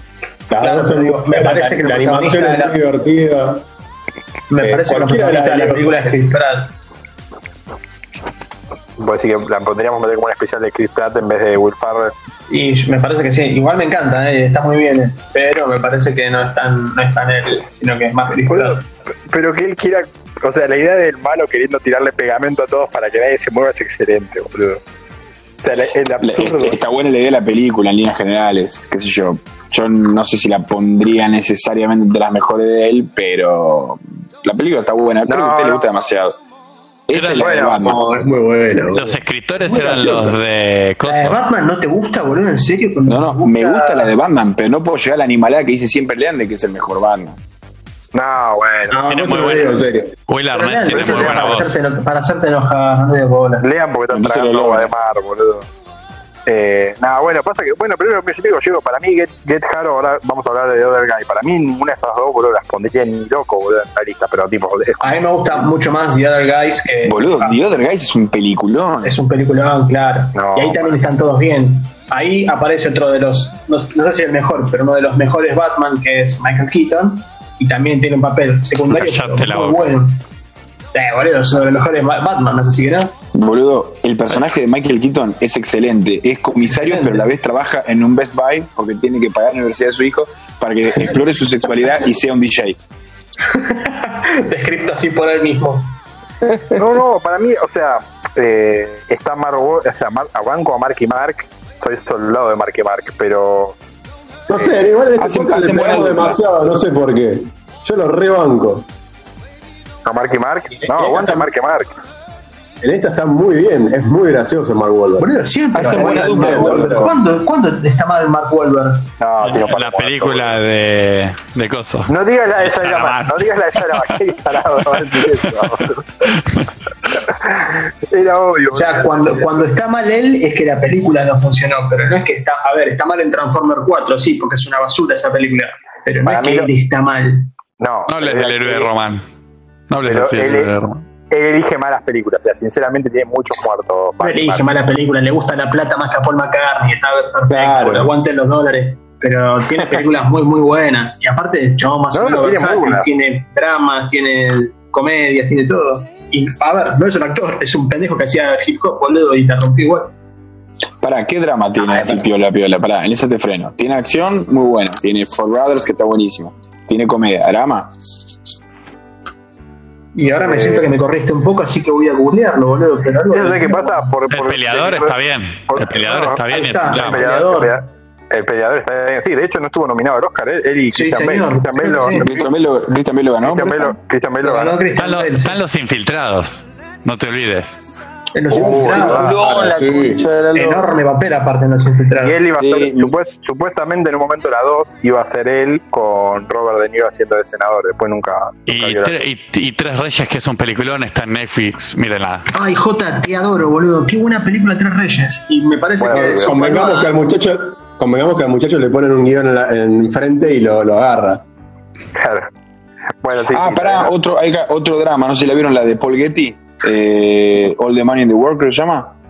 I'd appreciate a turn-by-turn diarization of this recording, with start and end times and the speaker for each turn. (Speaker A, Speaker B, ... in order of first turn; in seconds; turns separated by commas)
Speaker A: 0.5-3.6, Speaker B: 0.6-2.8, Speaker B: 4.5-6.7, Speaker A: 4.6-6.1, Speaker C: 9.0-12.1, Speaker B: 12.5-18.9, Speaker C: 18.5-24.8, Speaker C: 25.6-26.8, Speaker D: 26.2-36.4, Speaker C: 35.3-35.9, Speaker D: 37.1-38.0, Speaker E: 37.1-37.5, Speaker C: 37.4-37.9, Speaker A: 37.8-39.2, Speaker E: 38.9-41.4, Speaker B: 39.6-40.3, Speaker A: 39.9-40.3, Speaker B: 41.0-44.1, Speaker D: 43.1-47.4, Speaker C: 48.1-49.1, Speaker A: 48.9-50.1, Speaker E: 49.1-51.8, Speaker B: 50.5-53.6, Speaker C: 51.0-51.5, Speaker C: 53.6-55.7, Speaker D: 54.1-54.9, Speaker C: 56.5-65.7, Speaker B: 65.0-67.6, Speaker D: 67.0-69.2, Speaker B: 69.0-80.2, Speaker C: 70.3-71.0, Speaker E: 78.9-79.9, Speaker B: 80.9-83.2, Speaker D: 83.3-92.8, Speaker B: 86.6-87.3, Speaker B: 93.5-96.0, Speaker C: 96.7-103.8, Speaker A: 104.5-108.9, Speaker D: 105.2-106.4, Speaker C: 110.0-112.0, Speaker A: 110.9-111.5, Speaker A: 112.8-117.1, Speaker B: 115.2-119.1, Speaker D: 115.8-117.1, Speaker C: 119.2-120.6, Speaker E: 119.4-124.1, Speaker C: 122.1-126.4, Speaker C: 127.3-129.5, Speaker B: 128.7-137.5, Speaker C: 136.2-136.7, Speaker C: 137.8-138.9, Speaker E: 138.1-139.3, Speaker E: 139.9-141.0, Speaker C: 140.1-140.7, Speaker C: 141.3-144.7, Speaker B: 144.2-160.1, Speaker A: 147.5-148.1, Speaker C: 152.1-153.1, Speaker D: 161.0-168.1, Speaker B: 170.1-174.0, Speaker C: 170.4-170.9, Speaker C: 173.3-182.2, Speaker E: 174.3-177.3, Speaker B: 176.5-177.8, Speaker B: 180.9-182.5, Speaker D: 182.2-184.0, Speaker C: 183.4-184.8, Speaker B: 184.4-185.6, Speaker E: 185.0-187.8, Speaker B: 188.3-189.3, Speaker C: 188.5-189.4, Speaker D: 188.5-190.9, Speaker A: 188.5-190.3, Speaker B: 190.5-192.4, Speaker C: 192.2-199.2, Speaker D: 192.6-193.1, Speaker E: 198.7-202.5, Speaker B: 202.5-207.2, Speaker C: 206.0-206.6, Speaker A: 206.1-211.4, Speaker C: 212.2-212.5, Speaker C: 213.2-214.2, Speaker D: 213.5-219.1